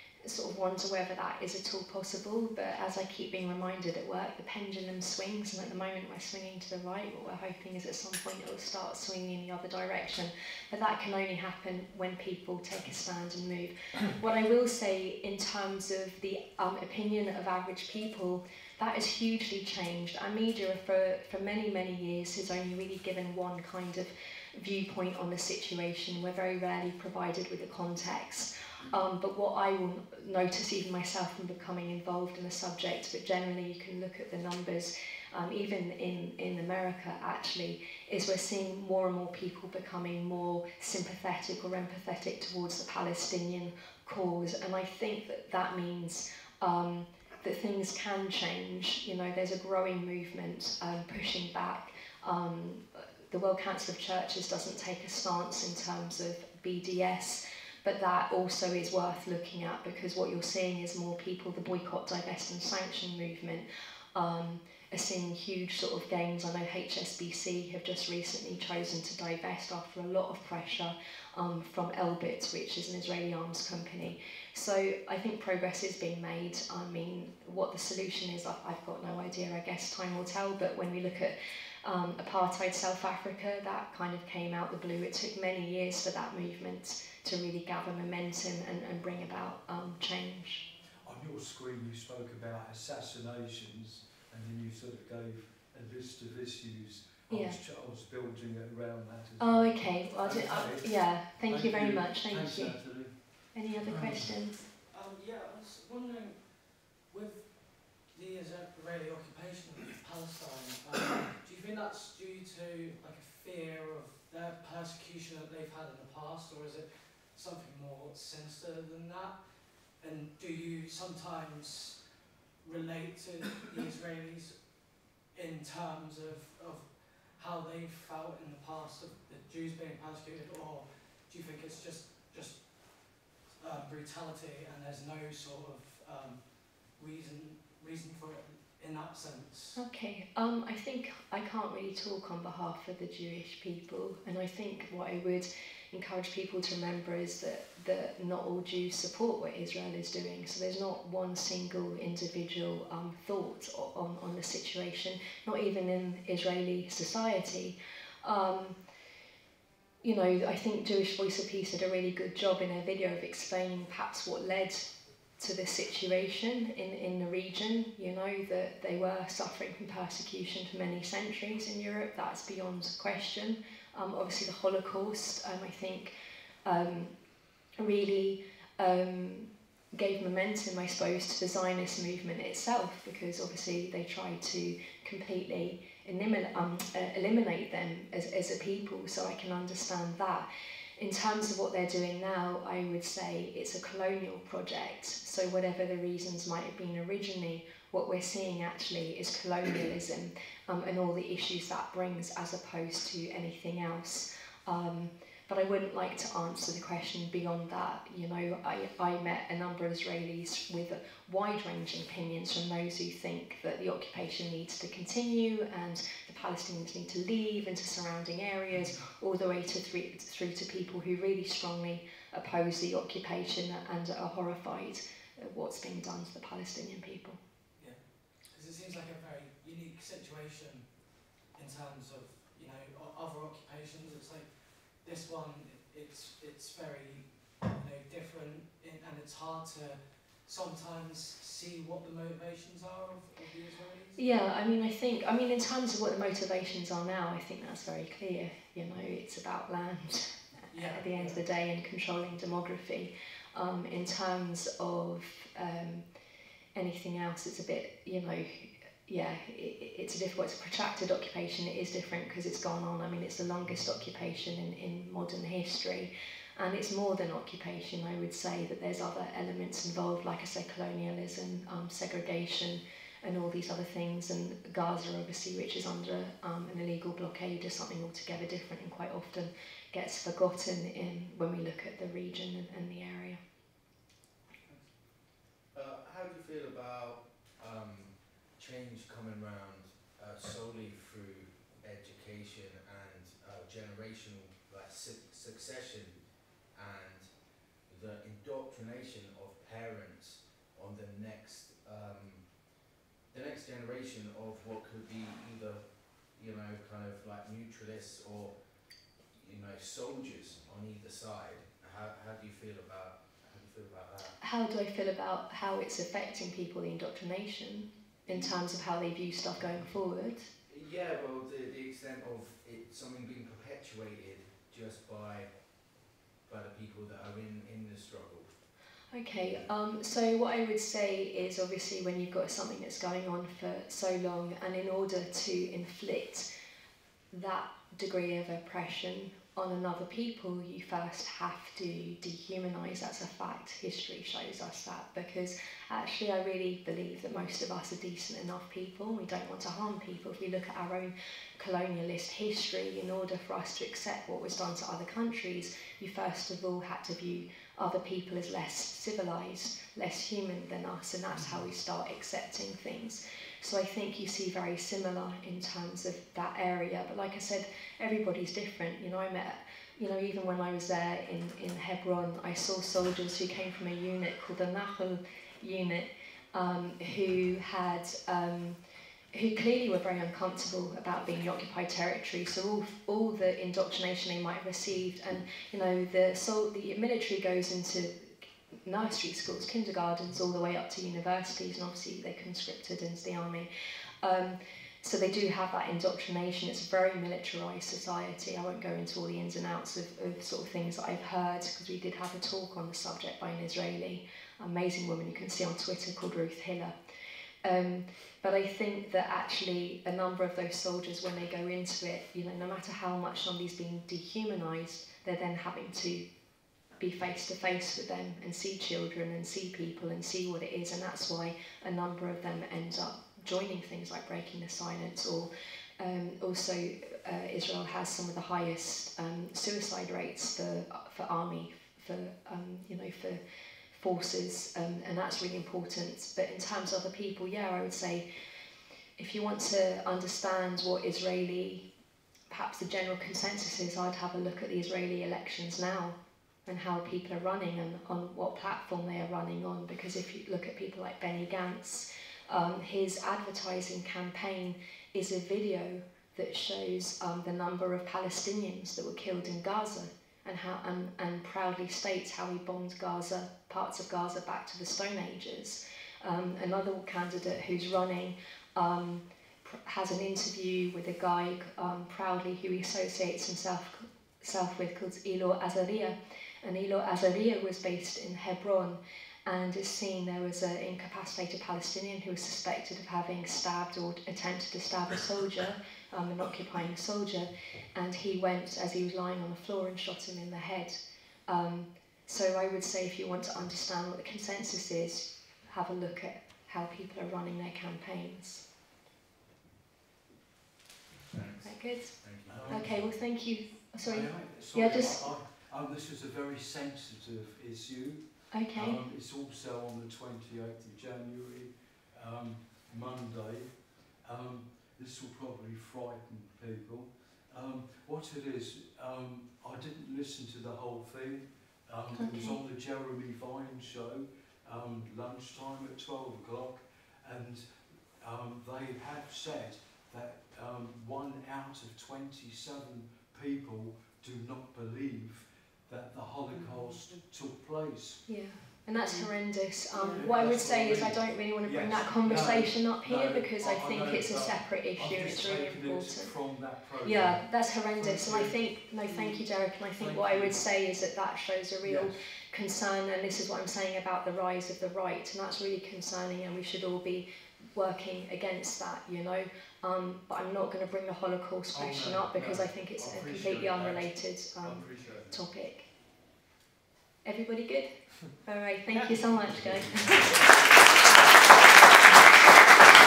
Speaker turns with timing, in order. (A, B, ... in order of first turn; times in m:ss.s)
0:00.2-1:30.7 A
1:31.0-1:44.3 B
1:37.3-1:37.6 A
1:39.4-1:44.6 A
1:44.7-2:19.8 C
2:19.8-2:38.8 A
2:40.0-2:56.1 A
2:56.7-2:57.1 A
2:57.8-3:10.5 A
3:11.0-3:47.4 A
3:47.8-4:04.5 C
4:04.2-4:16.0 A
4:10.7-4:11.4 C
4:16.8-4:43.4 A
4:44.6-4:45.0 C
4:45.7-5:14.4 D
5:14.4-5:20.5 A
5:18.3-5:18.6 D
5:20.7-5:28.6 D
5:29.1-5:36.5 A
5:37.3-6:18.8 A
6:19.3-6:33.7 A
6:34.2-6:46.9 A
6:47.6-6:56.2 A
6:57.0-7:13.4 A
7:13.9-7:18.2 A
7:19.2-7:21.9 A
7:22.5-8:18.6 A
8:21.3-8:23.1 D
8:21.6-8:25.3 A
8:22.5-8:23.2 B
8:24.0-8:58.4 B
8:28.5-8:29.0 A
8:42.2-8:42.6 A
8:56.5-8:57.1 C
8:58.3-9:25.9 A
9:00.1-9:09.4 B
9:10.0-9:10.6 B
9:11.8-9:12.2 B
9:21.7-9:25.4 B
9:27.2-9:30.4 A
9:29.0-9:29.8 B